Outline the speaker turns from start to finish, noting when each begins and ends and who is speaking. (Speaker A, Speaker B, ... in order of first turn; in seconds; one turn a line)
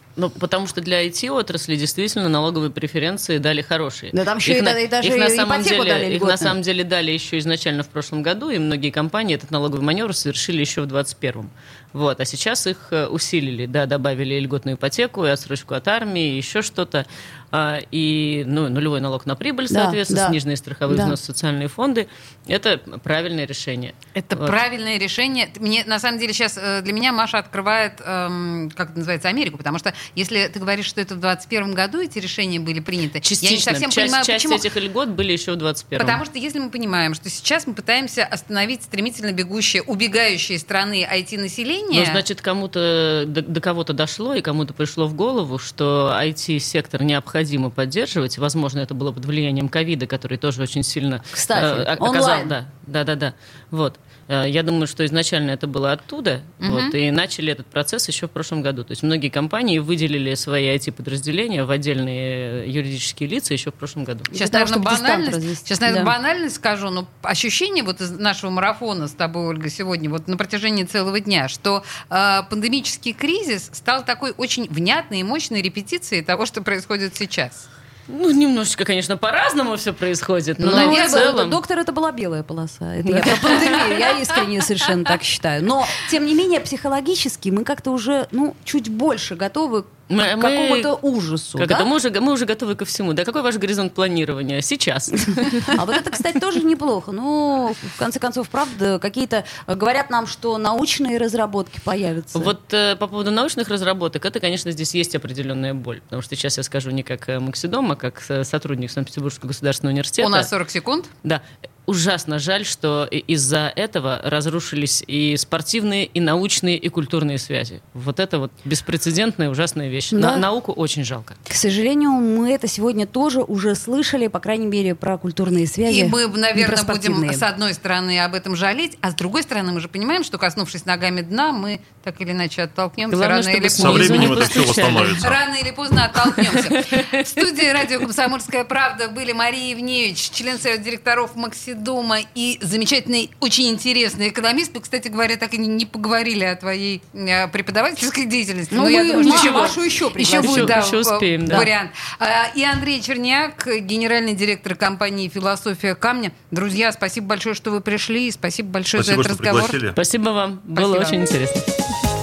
Speaker A: 0.2-24.6
Speaker B: 4.1-6.5
Speaker B: 19.7-21.2
Speaker C: 24.2-34.6
Speaker A: 33.2-36.2
Speaker C: 36.0-42.2
Speaker A: 41.9-64.3
Speaker B: 51.3-52.5
Speaker C: 56.6-57.0
Speaker C: 64.3-77.7
Speaker B: 64.3-66.1
Speaker A: 78.1-81.6
Speaker B: 80.6-91.9
Speaker C: 80.7-81.3
Speaker A: 83.0-84.2
Speaker A: 90.1-90.9
Speaker A: 91.6-95.8
Speaker B: 95.7-102.5
Speaker A: 102.3-110.5
Speaker C: 110.2-111.1
Speaker A: 111.2-121.4
Speaker B: 120.1-120.5
Speaker B: 121.5-127.4
Speaker C: 125.8-134.3
Speaker A: 133.1-135.3
Speaker D: 133.8-135.4
Speaker B: 134.0-134.4
Speaker C: 135.2-159.8
Speaker A: 136.1-137.4
Speaker B: 148.7-150.8
Speaker A: 149.1-151.7
Speaker D: 158.9-160.0
Speaker A: 159.9-161.6
Speaker C: 160.7-161.2